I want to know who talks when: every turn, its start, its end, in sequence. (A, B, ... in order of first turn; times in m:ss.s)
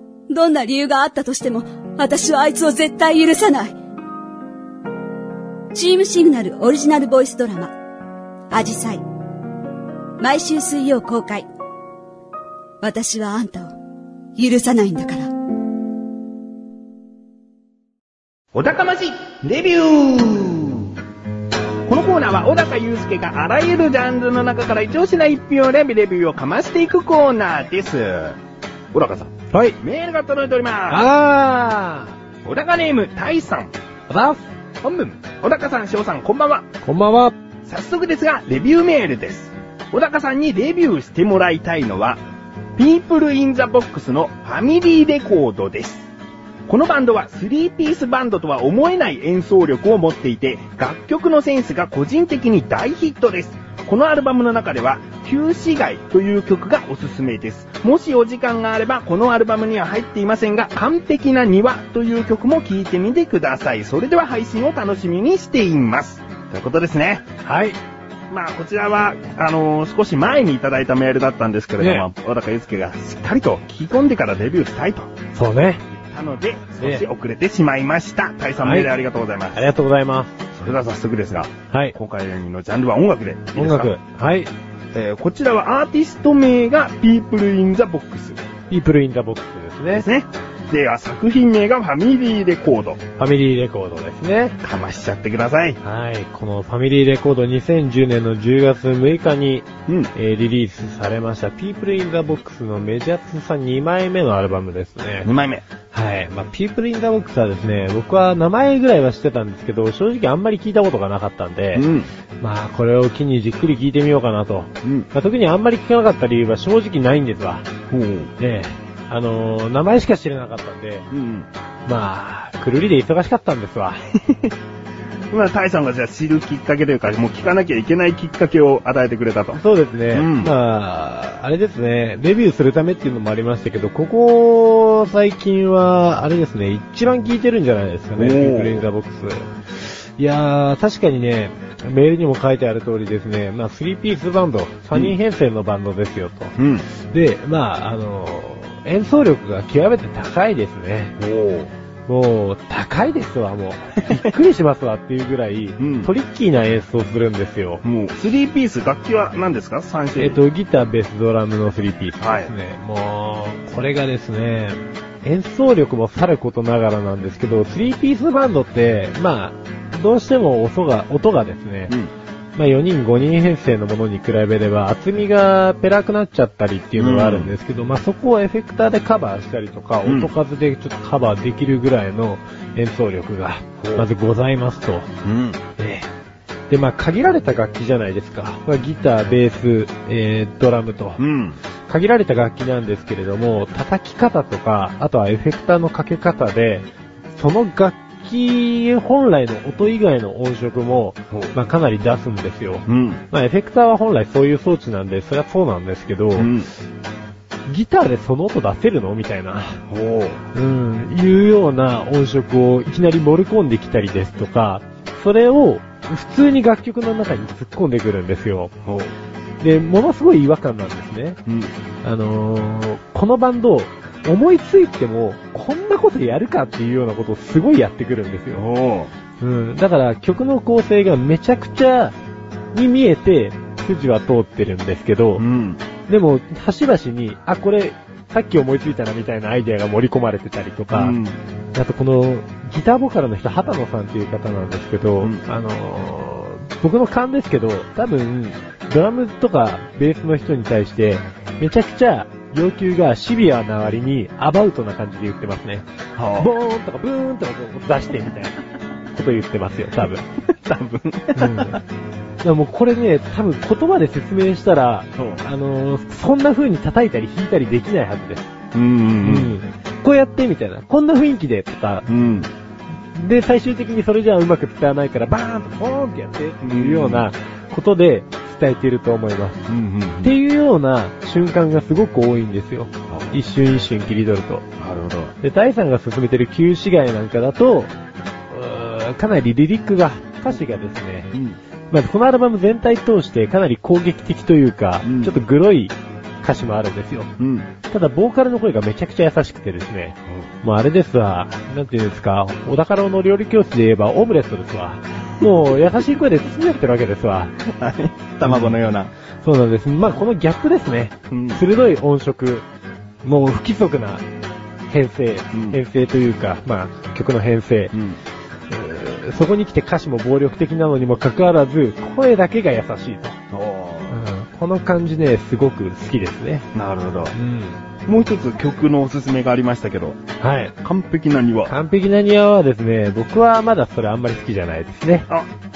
0:00.3-0:03.7 A
0:05.7-0:07.7 A
0:08.5-0:09.0 A
0:10.2-0:11.5 A
0:12.8-0:13.7 A
0:14.4-0:15.3 A
0:18.5-0:20.9 B
0:21.8-0:28.4 B
0:28.9-0:31.1 B
0:29.5-0:29.8 C
0:30.9-0:32.1 C
0:32.4-0:33.7 B
0:34.1-0:34.5 C
0:34.8-0:36.7 B
0:36.8-0:37.4 C
0:37.6-0:42.2 B
0:42.8-0:46.1 B
0:46.7-1:07.2 B
1:07.4-1:07.8 C
1:08.3-1:15.1 B
1:11.8-1:12.0 C
1:15.3-1:15.8 C
1:15.9-1:19.7 B
1:16.8-1:17.0 C
1:18.6-1:18.9 C
1:19.5-1:20.3 C
1:20.5-1:23.9 B
1:23.6-1:24.5 C
1:24.9-1:28.4 B
1:28.7-1:30.0 C
1:29.9-1:33.0 B
1:33.2-1:34.6 C
1:34.6-1:35.8 B
1:35.8-1:45.3 C
1:45.2-1:45.6 B
1:45.9-1:51.9 C
1:51.7-1:52.1 B
1:52.4-1:57.7 C
1:57.9-1:58.3 B
1:58.4-2:01.1 C
2:01.1-2:01.5 B
2:01.8-2:04.0 C
2:04.2-2:04.5 B
2:05.3-2:09.6 B
2:09.5-2:26.6 C
2:10.1-2:10.5 B
2:18.2-2:18.8 B
2:26.6-2:26.8 B
2:27.1-2:31.2 C
2:31.2-2:31.7 B
2:32.1-2:37.8 C
2:34.0-2:34.3 B
2:35.8-2:36.1 B
2:37.8-2:40.4 B
2:40.2-2:51.9 C
2:42.2-2:42.5 B
2:52.6-3:05.1 C
2:57.0-2:57.5 B
3:00.0-3:00.3 B
3:03.8-3:04.1 B
3:05.2-3:05.6 B
3:05.8-3:06.1 C
3:06.7-3:11.2 C
3:11.2-3:11.6 B
3:11.9-3:26.5 C
3:22.9-3:23.2 B
3:26.4-3:26.7 B
3:27.7-3:29.8 C
3:29.9-3:30.4 B
3:30.5-3:38.7 C
3:38.8-3:39.1 B
3:39.6-3:41.4 C
3:41.4-3:41.7 B
3:42.0-3:48.6 C
3:48.5-3:49.1 B
3:49.4-3:52.2 C
3:52.7-3:55.4 C
3:55.4-3:55.8 B
3:56.1-4:01.2 C
4:00.9-4:01.4 B
4:01.7-4:18.6 C
4:16.2-4:16.5 B
4:19.1-4:20.2 C
4:20.4-4:21.8 B
4:21.3-4:21.8 C
4:22.4-4:28.5 C
4:25.2-4:25.4 B
4:28.7-4:29.5 B
4:29.2-4:32.1 C
4:32.1-4:32.5 B
4:33.1-4:39.6 C
4:36.6-4:37.2 B
4:39.7-4:40.3 B
4:40.2-4:44.7 C
4:43.1-4:43.4 B
4:44.8-4:45.3 B
4:45.4-4:47.9 C
4:48.5-4:51.3 C
4:51.3-4:51.6 B
4:51.9-4:57.3 C
4:55.0-4:55.4 B
4:57.4-4:57.7 B
4:57.9-5:07.5 C
5:07.6-5:09.1 B
5:08.4-5:08.8 C
5:09.4-5:12.6 C
5:11.3-5:11.6 B
5:13.2-5:14.2 C
5:14.9-5:17.9 C
5:15.5-5:15.8 B
5:17.9-5:18.2 B
5:18.7-5:23.4 C
5:23.5-5:24.2 B
5:24.1-5:26.7 C
5:26.7-5:27.3 B
5:27.3-5:27.8 C
5:28.0-5:30.2 B
5:30.4-5:30.7 C
5:30.8-5:31.7 B
5:31.6-5:35.3 C